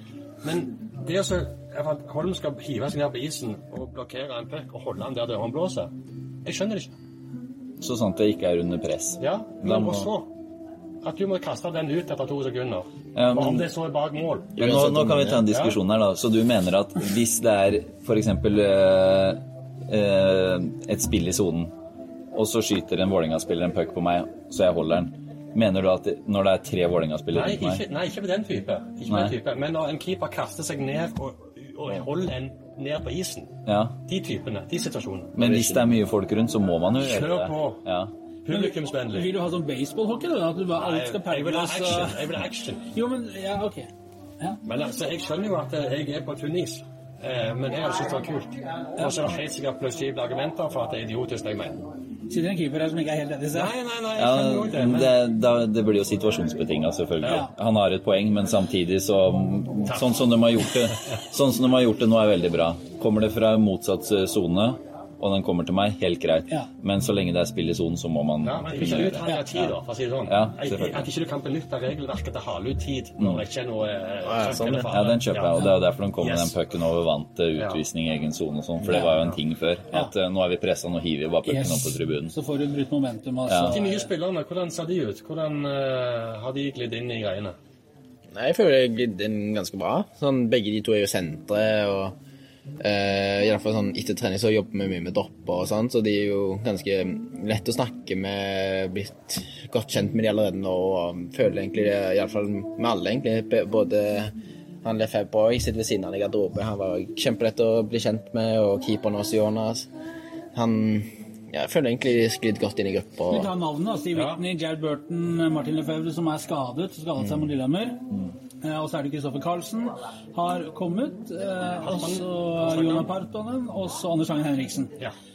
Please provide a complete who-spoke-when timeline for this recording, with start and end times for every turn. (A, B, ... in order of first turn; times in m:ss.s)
0:00.4-0:05.9 A
0:06.4-0:06.9 A
0:07.8-0:10.1 B
0:09.2-0:10.3 A
0:11.0-0:14.5 A
0:13.2-0:13.7 B
0:14.6-0:15.5 C
0:14.6-0:21.7 B
0:15.5-0:15.8 A
0:22.3-0:27.8 B
0:27.3-0:33.5 A
0:29.1-0:29.3 B
0:33.7-0:34.0 B
0:34.1-0:36.0 A
0:35.4-0:38.1 B
0:37.0-0:37.8 A
0:38.4-0:39.3 A
0:38.5-0:42.3 D
0:40.8-0:42.9 A
0:42.9-0:43.9 D
0:44.7-0:51.8 A
0:52.3-0:53.7 D
0:53.5-0:55.1 A
0:54.2-1:11.1 B
0:57.2-0:57.5 A
0:59.9-1:00.1 A
1:08.4-1:16.6 A
1:14.2-1:14.9 C
1:14.9-1:22.3 B
1:17.6-1:17.8 A
1:19.0-1:19.4 A
1:21.4-1:24.1 D
1:23.5-1:23.8 B
1:23.7-1:27.6 A
1:28.3-1:32.2 C
1:32.8-1:49.9 C
1:50.5-1:53.5 C
1:53.3-1:58.0 D
1:54.1-1:54.4 A
1:58.6-2:04.9 D
2:01.8-2:03.1 A